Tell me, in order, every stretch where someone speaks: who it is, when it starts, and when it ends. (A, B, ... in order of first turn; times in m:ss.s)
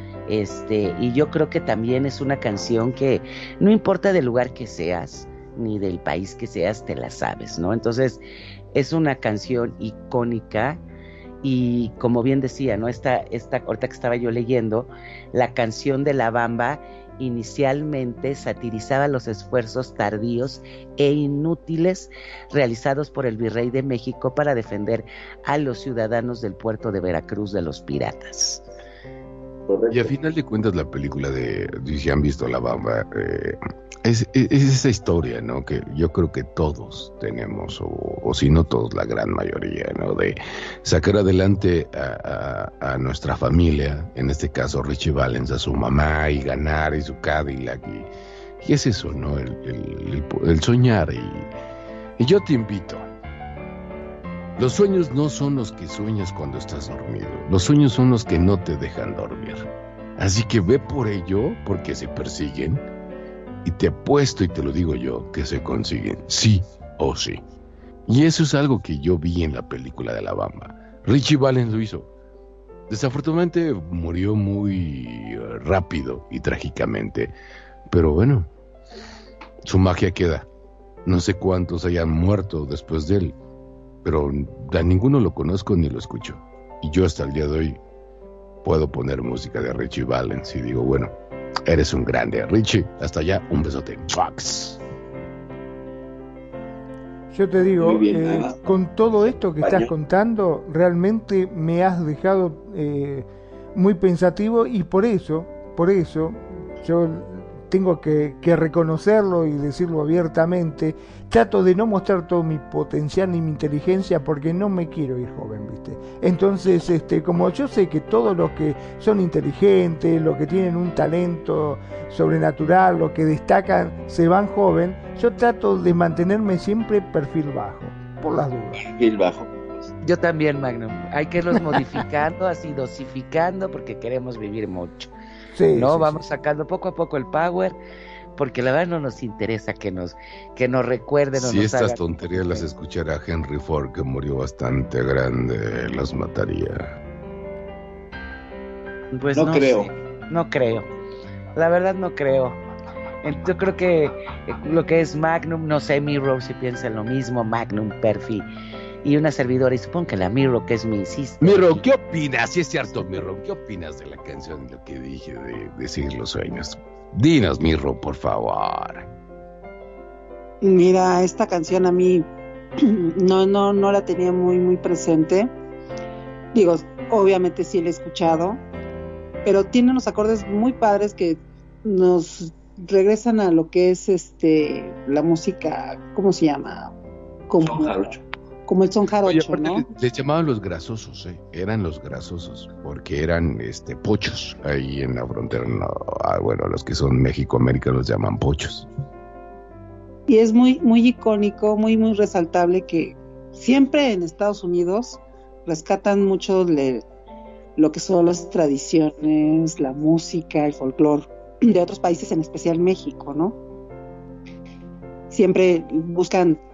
0:00.3-0:08.2 A
0:08.8-0:10.8 A
0:11.4-0:28.6 A
0:29.7-0:30.1 B
0:29.9-0:48.1 C
0:48.6-0:51.5 C
0:52.2-0:53.0 C
0:54.6-1:02.8 C
1:03.6-1:07.4 C
1:08.1-1:12.1 C
1:12.9-1:17.3 C
1:17.9-1:18.5 C
1:19.6-1:20.5 C
1:21.1-1:23.4 C
1:24.0-1:27.8 C
1:28.6-1:31.1 C
1:31.7-1:34.8 C
1:37.3-2:08.8 D
1:37.7-1:38.6 B
1:39.5-1:39.9 B
2:08.8-2:09.9 B
2:10.0-2:15.1 A
2:11.6-2:11.8 D
2:15.5-2:16.3 D
2:15.7-2:17.8 A
2:18.4-2:22.7 A
2:21.3-2:27.0 C
2:29.1-2:30.9 A
2:29.4-2:29.9 B
2:31.6-2:32.6 A
2:33.2-2:38.5 A
2:39.0-2:41.8 A
2:41.4-2:49.1 C
2:50.6-2:52.3 E
2:52.8-2:55.5 E
2:56.5-2:58.6 E
2:59.4-3:06.9 E
3:07.5-3:08.1 E
3:07.6-3:08.2 B
3:08.7-3:09.8 E
3:09.2-3:18.9 C
3:20.3-3:27.0 E
3:27.8-3:33.6 E
3:35.3-3:36.6 E